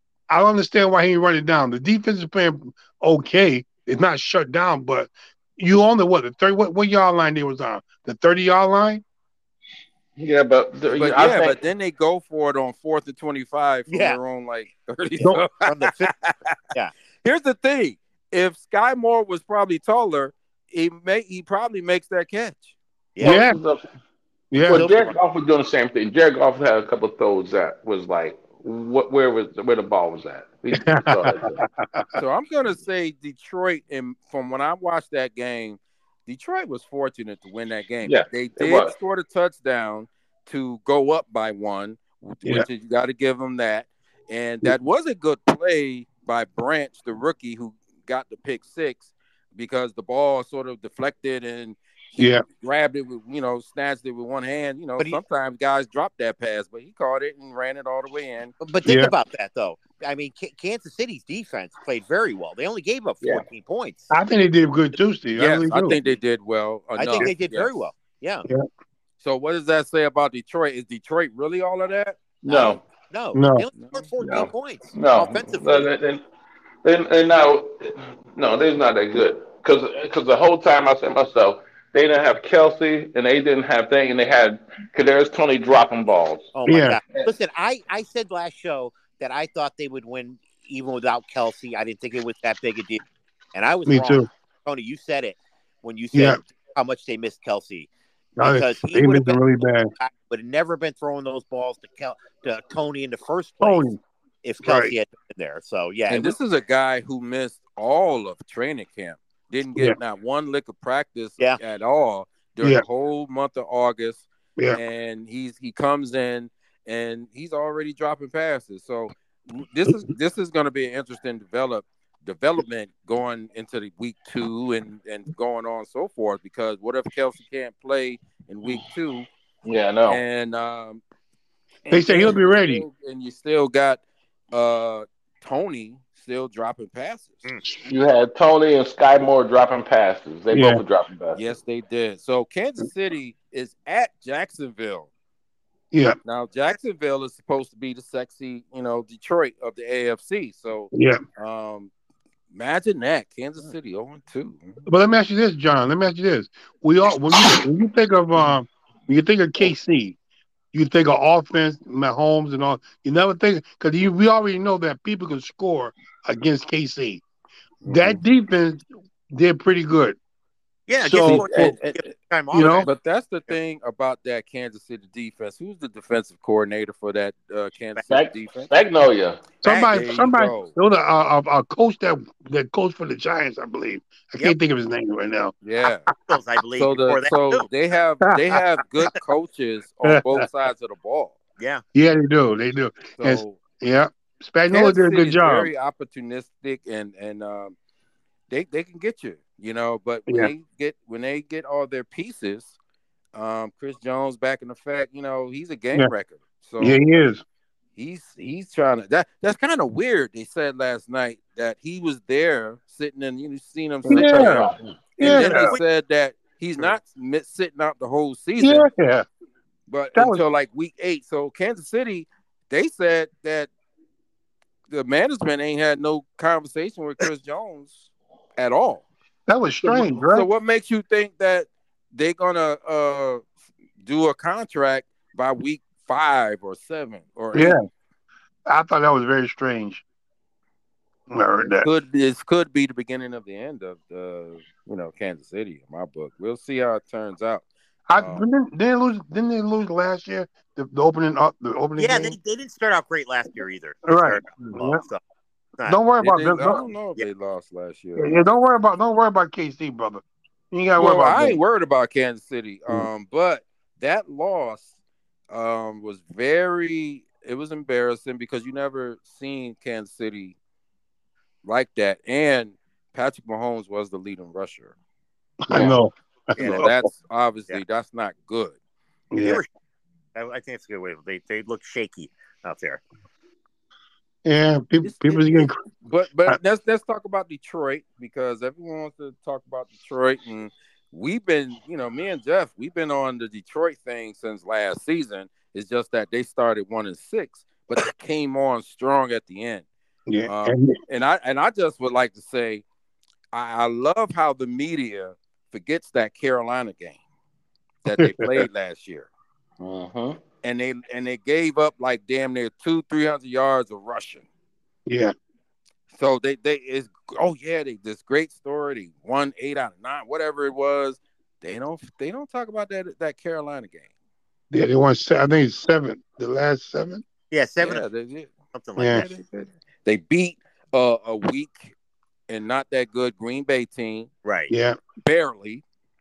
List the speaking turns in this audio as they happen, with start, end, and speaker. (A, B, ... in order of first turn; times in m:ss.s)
0:00.3-0:09.0 A
0:10.2-0:11.6 B
0:10.9-0:16.5 C
0:13.9-0:14.2 D
0:15.2-0:16.1 D
0:17.2-0:22.7 C
0:23.2-0:23.4 D
0:23.2-0:23.8 B
0:23.2-0:23.6 A
0:24.5-0:24.8 A
0:24.6-0:25.2 C
0:24.6-0:31.6 B
0:30.7-0:32.1 A
0:32.2-0:58.5 C
0:38.0-0:38.9 B
0:52.2-0:52.4 A
0:58.6-1:04.1 D
0:58.8-0:59.1 A
1:04.1-1:06.0 A
1:05.4-1:07.7 C
1:07.0-1:08.5 D
1:09.2-1:12.2 C
1:12.4-1:12.8 B
1:12.5-1:15.9 D
1:13.3-1:13.7 A
1:14.2-1:16.2 B
1:16.8-1:26.5 B
1:26.6-1:33.0 D
1:26.7-1:27.0 A
1:33.5-1:37.9 D
1:33.9-1:34.3 A
1:36.1-1:36.4 A
1:38.4-1:39.9 A
1:38.4-1:43.9 D
1:43.6-1:44.0 A
1:44.4-1:46.4 D
1:44.6-1:44.9 A
1:46.1-2:09.3 C
2:09.6-2:10.2 B
2:10.1-2:11.0 C
2:11.8-2:14.0 C
2:11.9-2:12.8 A
2:14.5-2:17.4 C
2:17.8-2:21.4 B
2:20.5-2:20.8 A
2:21.3-2:25.1 C
2:25.9-2:26.2 A
2:26.2-2:31.9 C
2:30.9-2:31.2 A
2:32.5-2:34.8 C
2:34.8-2:40.2 A
2:40.7-2:47.2 A
2:47.8-2:48.2 C
2:47.9-2:50.2 A
2:50.9-2:52.9 D
2:51.0-2:51.8 A
2:51.2-2:52.0 C
2:52.5-2:52.9 A
2:52.8-2:58.7 C
2:58.1-2:59.4 B
2:59.6-3:05.5 A
2:59.6-3:00.0 D
2:59.9-3:00.7 C
3:05.6-3:06.1 C
3:06.3-3:07.7 D
3:06.8-3:11.4 C
3:10.0-3:10.4 A
3:12.0-3:15.7 A
3:13.2-3:13.6 C
3:14.7-3:17.8 C
3:18.5-3:22.8 C
3:23.3-3:27.2 C
3:26.8-3:27.4 A
3:28.0-3:38.9 C
3:34.0-3:35.0 B
3:34.1-3:35.8 A
3:35.2-3:35.8 D
3:38.6-3:39.2 A
3:39.9-3:43.7 C
3:40.2-3:40.4 A
3:44.9-3:49.1 C
3:49.5-3:50.5 A
3:49.8-3:53.4 C
3:54.0-3:57.8 C
3:57.5-3:57.8 A
3:58.7-4:00.0 A
4:01.3-4:01.9 A
4:01.8-4:07.6 C
4:08.1-4:12.4 A
4:08.2-4:08.5 C
4:12.0-4:15.2 D
4:14.1-4:15.0 A
4:15.8-4:16.8 A
4:16.2-4:18.4 C
4:18.2-4:21.6 A
4:21.0-4:24.9 C
4:25.5-4:30.6 C
4:31.6-4:34.9 C
4:35.6-4:36.9 A
4:36.6-4:36.9 D
4:36.6-4:38.8 C
4:39.3-4:39.6 A
4:39.4-4:39.7 D
4:40.4-4:43.0 D
4:44.4-4:45.8 A
4:45.0-4:59.9 C
5:00.3-5:01.0 A
5:00.5-5:02.8 C
5:03.5-5:07.2 C
5:08.0-5:09.3 C
5:08.2-5:08.6 A
5:09.8-5:10.4 B
5:10.6-5:14.5 C
5:15.1-5:15.3 A
5:16.1-5:24.1 C
5:24.7-5:27.2 A
5:27.5-5:28.0 D
5:27.8-5:28.5 C
5:28.7-5:29.3 D
5:29.0-5:29.3 A
5:29.2-5:31.9 C
5:32.5-5:34.3 C
5:34.4-5:34.7 D
5:34.7-5:35.0 A
5:35.2-5:35.8 C